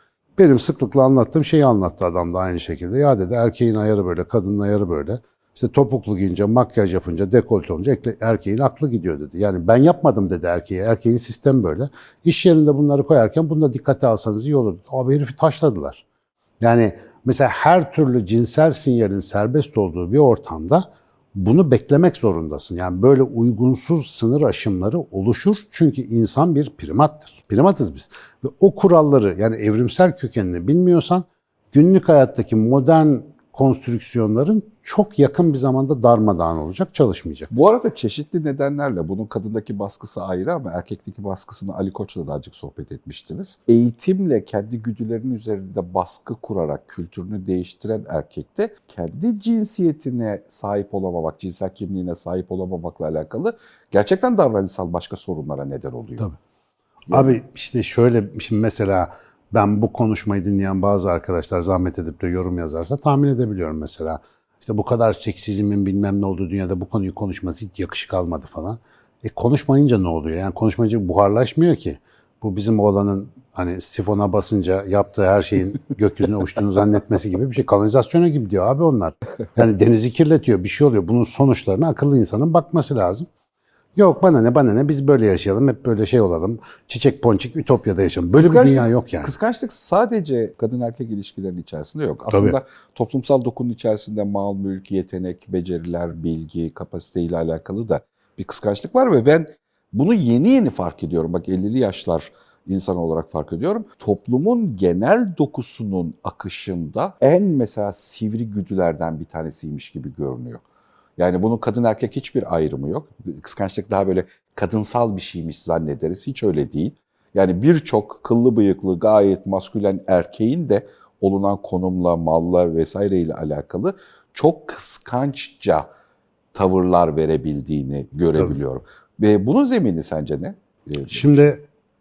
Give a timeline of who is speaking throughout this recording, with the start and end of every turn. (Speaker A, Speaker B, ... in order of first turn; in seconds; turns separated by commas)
Speaker A: 0.4-16.0, Speaker A: 16.6-37.5, Speaker B: 37.5-56.2, Speaker A: 57.1-83.3, Speaker B: 57.1-57.4, Speaker A: 84.0-89.3, Speaker B: 88.4-110.6, Speaker A: 92.3-92.6, Speaker B: 111.2-125.9, Speaker B: 126.5-131.4, Speaker A: 131.1-131.7